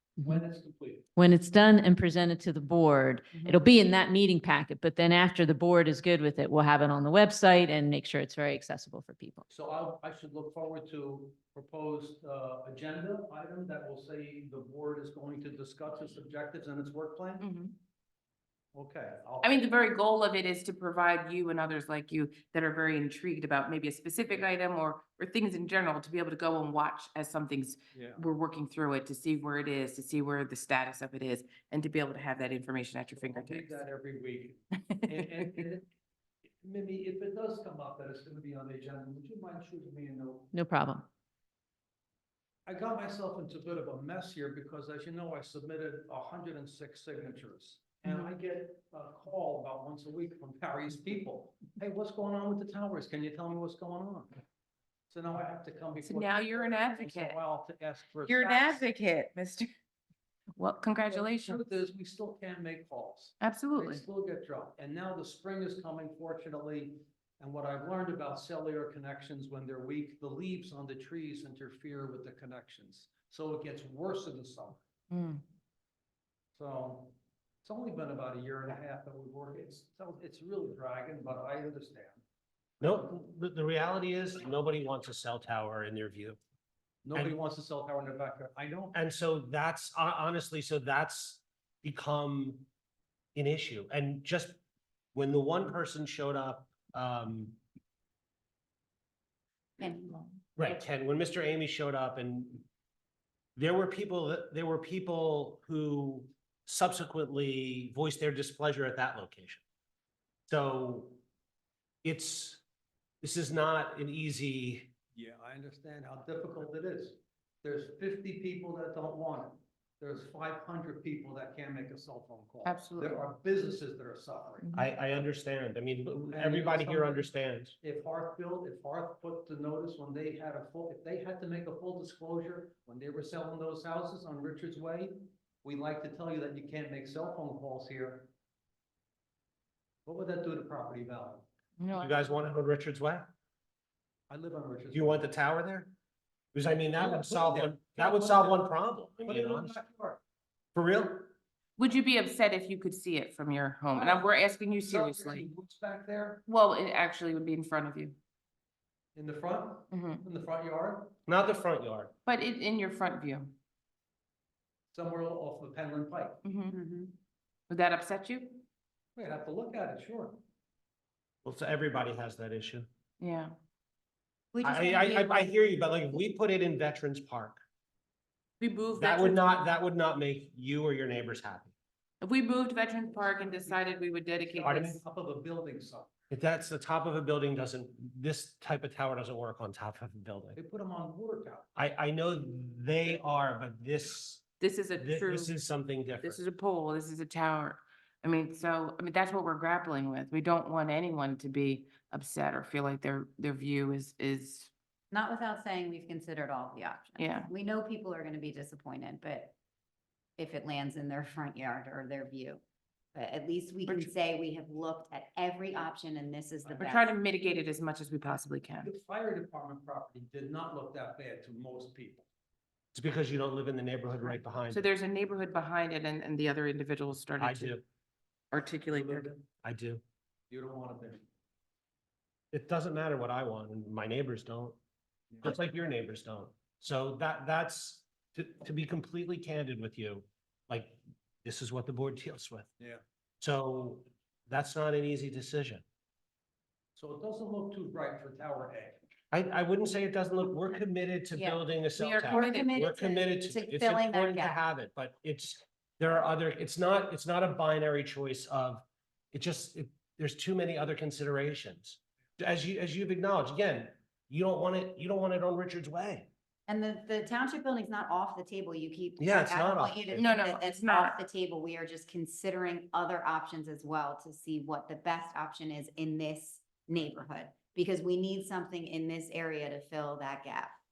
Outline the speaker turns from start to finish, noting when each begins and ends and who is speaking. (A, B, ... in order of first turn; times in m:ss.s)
0:00.2-0:01.1 A
0:01.2-0:09.4 B
0:03.3-0:03.6 C
0:09.5-0:17.5 A
0:17.4-0:17.8 C
0:18.8-0:19.7 A
0:19.4-0:33.8 C
0:27.9-0:28.2 A
0:33.2-0:35.9 A
0:34.9-0:35.6 C
0:36.6-0:40.5 A
0:40.5-0:41.1 B
0:42.7-0:54.4 A
0:48.0-0:48.3 C
0:55.1-0:58.8 A
0:56.0-0:57.4 C
0:58.3-0:59.7 C
1:00.6-1:01.6 C
1:01.1-1:14.8 A
1:03.4-1:04.0 C
1:15.1-1:15.4 C
1:16.6-1:22.2 A
1:22.8-1:26.4 D
1:27.0-1:29.0 A
1:28.9-1:32.7 D
1:33.3-1:34.6 D
1:35.1-1:37.6 D
1:39.8-1:40.2 E
1:39.8-1:40.3 C
1:40.6-1:42.7 D
1:43.6-1:49.6 D
1:50.5-1:51.2 D
1:52.0-1:52.6 D
1:53.2-1:54.9 D
1:55.1-2:04.6 A
2:02.6-2:03.2 C
2:04.6-2:04.9 C
2:04.7-2:07.7 D
2:06.3-2:18.3 A
2:20.0-2:21.5 A
2:21.8-2:22.2 C
2:22.0-2:23.3 D
2:24.3-2:25.3 A
2:24.9-2:25.9 D
2:26.5-2:29.8 D
2:27.0-2:28.7 A
2:29.2-2:30.2 A
2:30.7-2:31.3 D
2:31.8-2:35.4 C
2:33.9-2:36.4 A
2:36.5-2:38.2 C
2:39.1-2:41.1 A
2:39.9-2:40.2 C
2:41.3-2:42.1 D
2:42.2-2:43.5 C
2:44.9-2:46.4 A
2:46.4-2:46.8 C
2:46.7-2:47.2 E
2:47.7-2:48.6 C
2:49.2-2:50.4 A
2:51.4-2:52.9 D
2:53.2-2:53.5 C
2:54.5-2:55.5 E
2:54.6-2:57.6 D
2:58.6-2:59.6 C
2:59.0-3:01.7 D
3:02.2-3:05.0 C
3:03.1-3:06.1 A
3:04.6-3:05.0 D
3:06.3-3:10.6 D
3:10.6-3:11.7 A
3:11.8-3:14.4 D
3:14.6-3:15.5 C
3:15.0-3:16.4 D
3:16.2-3:24.7 C
3:25.1-3:29.5 E
3:27.2-3:27.5 C
3:30.4-3:32.6 E
3:33.1-3:37.1 E
3:33.8-3:34.1 C
3:36.6-3:37.0 A
3:36.8-3:38.9 C
3:38.8-3:42.2 A
3:42.9-3:44.9 D
3:44.7-3:47.8 C
3:47.4-3:47.8 D
3:48.5-3:49.3 C
3:48.9-3:49.4 A
3:49.6-3:50.0 D
3:50.5-3:51.2 A
3:52.5-3:54.8 D
3:55.4-4:02.7 D
4:03.4-4:05.8 D
4:07.0-4:09.0 A
4:09.3-4:26.3 D
4:12.0-4:12.9 C
4:12.2-4:14.6 E
4:26.7-4:40.8 E
4:29.2-4:30.2 D
4:30.1-4:31.2 C